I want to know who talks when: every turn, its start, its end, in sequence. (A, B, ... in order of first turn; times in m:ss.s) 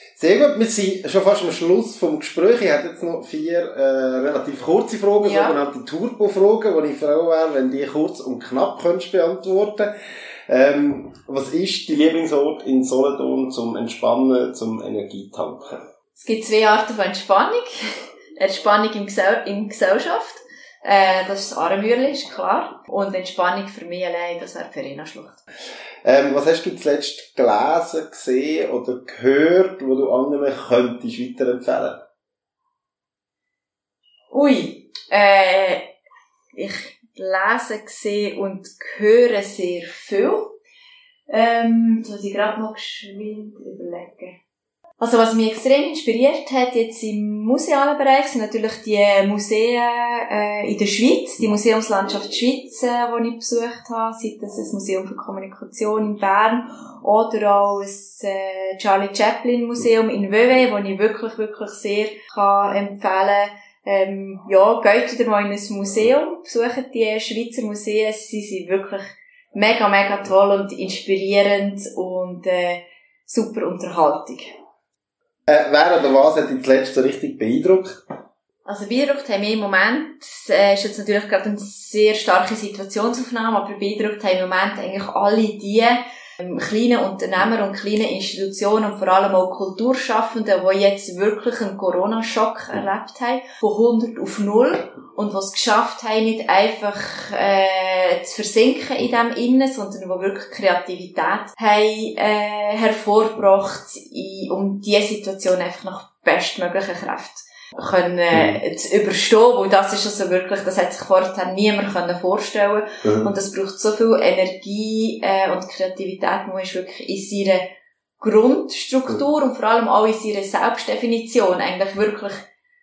0:00.2-0:09.9 A
0:05.2-0:05.5 B
0:10.5-0:15.8 A
0:16.2-0:25.4 B
0:26.0-0:32.0 A
0:34.3-0:35.9 B
0:36.5-0:40.5 B
0:41.3-0:44.4 B
0:45.0-1:14.5 B
1:15.5-1:18.0 A
1:18.6-1:57.6 B
1:48.3-1:48.6 A
1:53.0-1:53.3 A
1:58.2-2:02.4 B